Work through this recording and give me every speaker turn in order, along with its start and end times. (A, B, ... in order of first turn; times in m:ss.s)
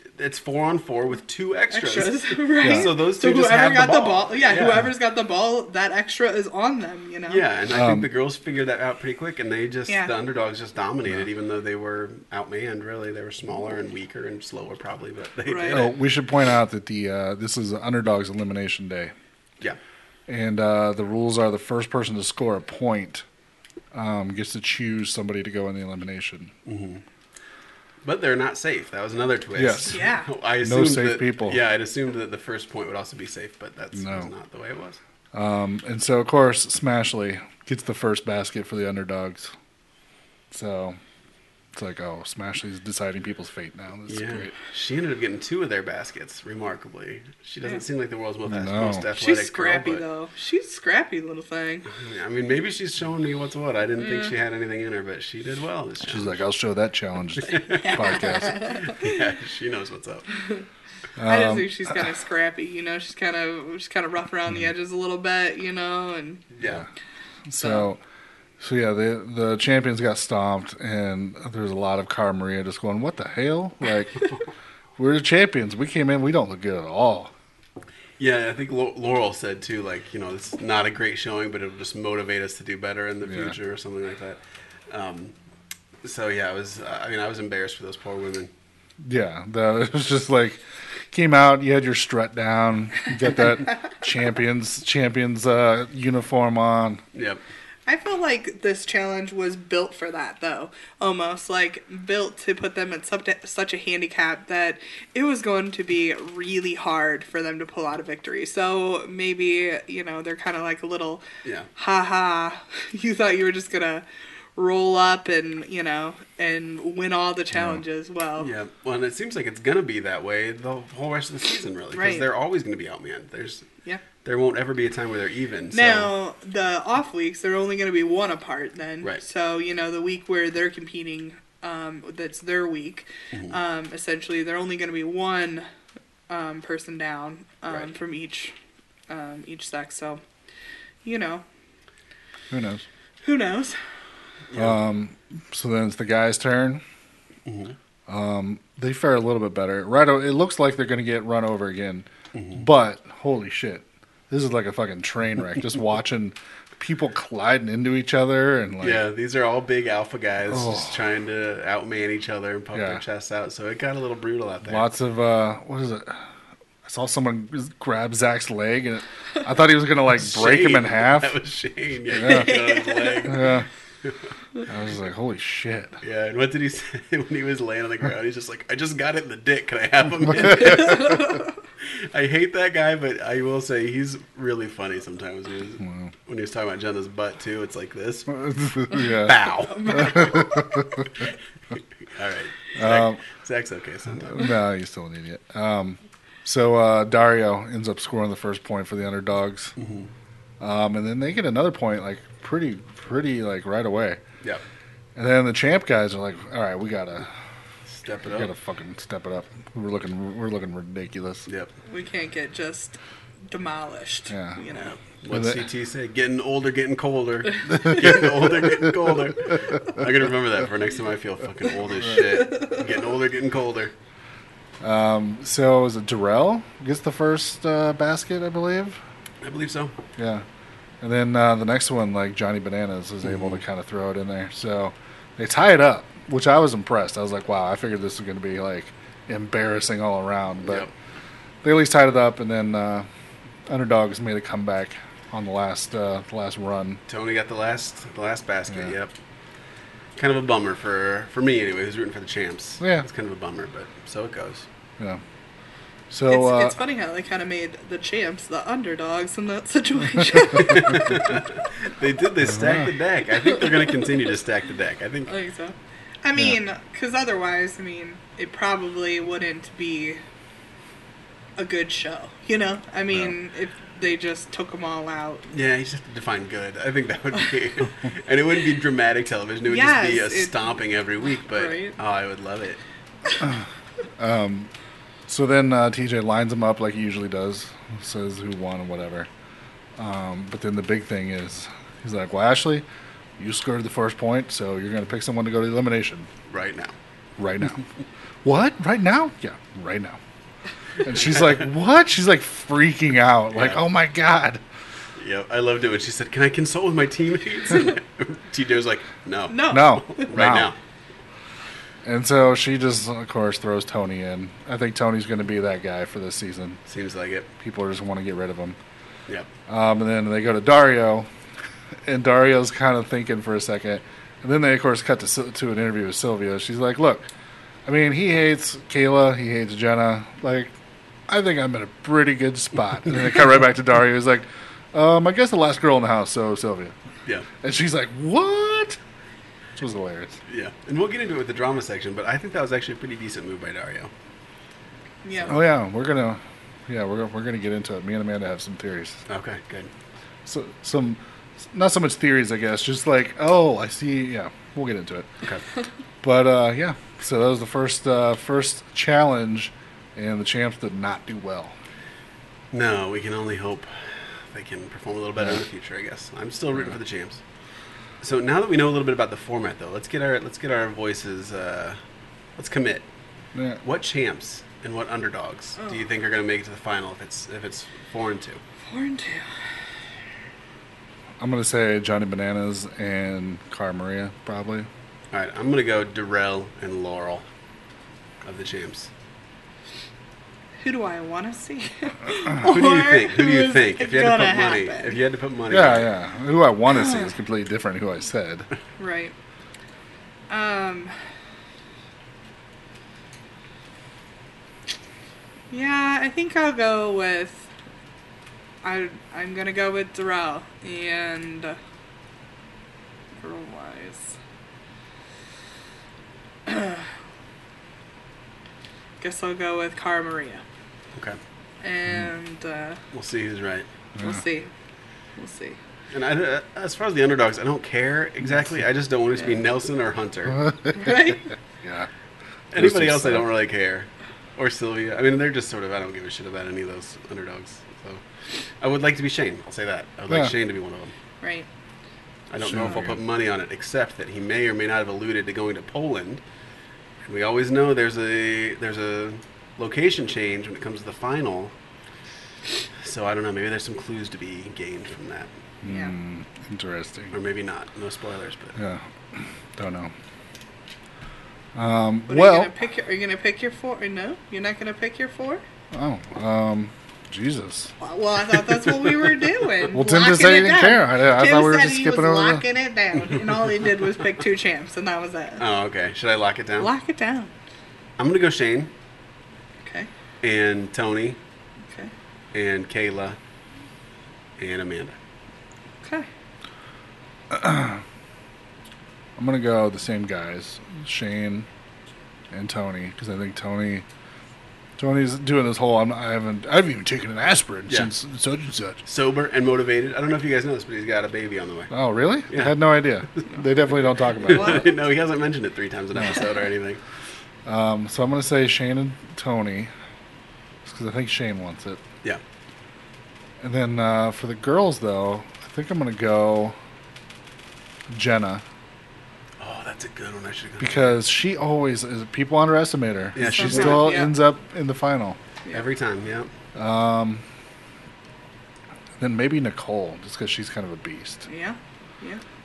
0:00.1-0:04.9 A
0:01.7-0:07.4 B
0:02.6-0:02.9 C
0:07.3-0:16.0 A
0:07.7-0:08.1 C
0:15.4-0:15.8 B
0:15.7-0:19.1 C
0:20.3-0:23.2 C
0:23.9-0:26.5 C
0:26.6-0:27.0 A
0:28.0-0:35.0 A
0:29.6-0:30.0 C
0:29.9-0:30.3 B
0:30.6-0:31.6 C
0:33.9-0:34.3 C
0:35.3-0:39.5 C
0:40.5-0:41.0 C
0:41.7-0:44.5 C
0:44.1-0:50.0 A
0:48.4-0:49.1 C
0:49.1-0:51.9 B
0:51.9-0:56.4 A
0:54.0-0:54.3 B
0:56.1-0:58.5 C
0:57.4-1:00.3 A
0:57.5-0:59.2 B
1:01.2-1:01.8 C
1:01.2-1:06.5 B
1:06.5-1:06.8 A
1:06.6-1:06.9 C
1:07.5-1:08.0 C
1:07.6-1:07.9 B
1:08.6-1:14.2 C
1:15.0-1:17.3 C
1:18.2-1:25.3 A
1:23.2-1:23.6 C
1:26.0-1:28.5 A
1:29.0-1:37.0 C
1:37.1-1:37.4 A
1:37.8-1:51.2 B
1:51.8-1:54.0 B
1:54.6-1:58.5 B
1:57.5-1:57.8 C
1:58.4-2:03.6 A
2:01.9-2:02.2 B
2:04.2-2:06.1 A
2:05.7-2:15.7 B
2:16.3-2:18.5 B
2:19.1-2:20.2 B
2:21.0-2:21.4 B
2:22.5-2:22.8 C
2:23.2-2:23.8 B
2:24.5-2:24.8 A
2:24.5-2:26.8 C
2:27.4-2:27.8 A
2:28.1-2:39.0 C
2:32.3-2:32.6 A
2:38.8-2:44.9 A
2:40.5-2:41.0 C
2:42.7-2:43.0 C
2:44.6-2:46.3 C
2:46.8-2:51.3 C
2:50.1-2:53.4 A
2:52.2-2:52.5 C
2:52.2-2:53.3 B
2:53.2-2:53.7 C
2:54.7-2:56.0 C
2:56.0-3:01.4 A
3:01.0-3:01.4 B
3:01.9-3:10.4 A
3:05.8-3:06.1 C
3:08.3-3:09.4 C
3:09.7-3:10.7 B
3:09.9-3:11.0 C
3:12.1-3:14.5 A
3:12.8-3:13.2 C
3:14.2-3:19.7 C
3:19.8-3:20.1 A
3:20.6-3:24.2 C
3:25.2-3:27.4 C
3:27.9-3:28.5 A
3:28.2-3:31.4 C
3:31.9-3:33.0 B
3:33.5-3:34.9 B
3:34.3-3:34.6 C
3:35.0-3:43.9 A
3:35.3-3:35.6 C
3:44.8-3:49.0 C
3:49.4-3:50.0 A
3:50.2-3:50.4 C
3:51.0-4:00.9 C
3:53.2-3:53.5 A
4:00.6-4:00.9 A
4:01.6-4:03.1 C
4:03.7-4:07.0 C
4:07.1-4:09.1 A
4:10.2-4:14.6 A
4:12.8-4:13.0 C
4:16.1-4:16.8 C
4:16.3-4:21.2 B
4:20.6-4:25.3 A
4:25.3-4:30.2 B
4:31.6-4:35.5 B
4:35.5-4:42.8 A
4:39.7-4:40.5 B
4:41.4-4:42.0 B
4:44.2-4:44.7 C
4:45.3-4:49.3 C
4:50.0-4:52.8 C
4:53.4-4:56.3 C
4:56.5-4:56.9 A
4:57.4-4:57.8 C
4:58.4-5:00.2 C
5:01.0-5:04.6 C
5:01.2-5:01.6 A
5:03.5-5:03.8 A
5:05.2-5:10.8 A
5:09.5-5:10.3 B
5:09.7-5:10.7 C
5:12.0-5:16.8 C
5:16.9-5:17.5 A
5:17.6-5:18.8 C
5:19.7-5:21.3 C
5:22.0-5:27.3 C
5:27.8-5:30.7 C
5:31.3-5:36.9 C
5:37.6-5:39.0 C
5:39.8-5:40.4 C
5:40.5-5:44.1 A
5:45.2-5:45.6 B
5:45.5-5:49.2 C
5:49.3-5:49.9 A
5:50.4-5:55.3 C
5:56.2-6:01.8 C
6:02.7-6:07.4 A
6:05.4-6:05.6 C
6:08.2-6:12.0 A
6:12.6-6:13.0 A
6:13.5-6:13.8 C
6:13.8-6:18.6 A
6:18.9-6:19.5 B
6:21.4-6:24.9 C
6:25.3-6:27.4 A
6:28.4-6:29.1 A
6:30.8-6:35.2 B
6:32.6-6:36.1 A
6:35.7-6:38.7 C
6:36.9-6:37.3 B
6:39.0-6:39.3 B
6:40.5-6:41.1 B
6:45.7-6:47.7 B
6:48.8-6:51.8 B
6:53.4-6:54.4 B
6:56.7-6:57.1 B
6:59.2-7:00.6 B
7:01.1-7:01.4 A
7:01.8-7:03.0 B
7:03.1-7:03.9 A
7:04.1-7:04.4 C
7:04.2-7:04.7 B
7:05.4-7:05.8 B
7:06.1-7:10.6 A
7:10.9-7:11.5 B
7:11.8-7:12.1 C
7:12.7-7:18.2 A
7:12.7-7:13.5 C
7:18.8-7:21.1 A
7:20.3-7:20.5 C
7:21.4-7:21.7 B
7:22.5-7:26.4 A
7:22.6-7:23.2 C
7:27.2-7:31.7 A
7:33.0-7:35.5 A
7:35.8-7:37.3 C
7:35.8-7:36.1 B
7:37.3-7:38.8 A
7:38.8-7:40.1 C
7:41.7-7:42.7 C
7:42.3-7:45.6 B
7:45.9-7:47.9 C
7:48.0-7:55.6 B
7:49.9-7:52.6 C
7:55.6-7:56.9 A
7:56.8-7:57.5 B
7:58.2-7:58.9 A
7:59.8-8:00.1 B
8:00.4-8:01.4 A
8:02.5-8:03.4 A
8:04.6-8:05.2 A
8:06.0-8:06.3 B
8:07.5-8:08.0 C
8:09.4-8:11.7 C
8:12.5-8:14.0 C
8:15.0-8:19.0 C
8:19.0-8:21.9 A
8:21.9-8:24.8 C
8:22.5-8:22.8 A
8:24.4-8:27.0 A
8:24.4-8:24.9 B
8:26.2-8:26.4 C
8:27.6-8:29.9 C
8:30.8-8:32.0 C
8:33.6-8:36.8 C
8:38.1-8:38.6 C
8:39.6-8:41.0 A
8:40.8-8:45.4 C
8:43.3-8:44.2 A
8:43.4-8:44.3 B
8:45.7-8:46.5 A
8:46.7-8:47.4 C
8:49.2-8:51.5 C
8:51.5-8:52.4 B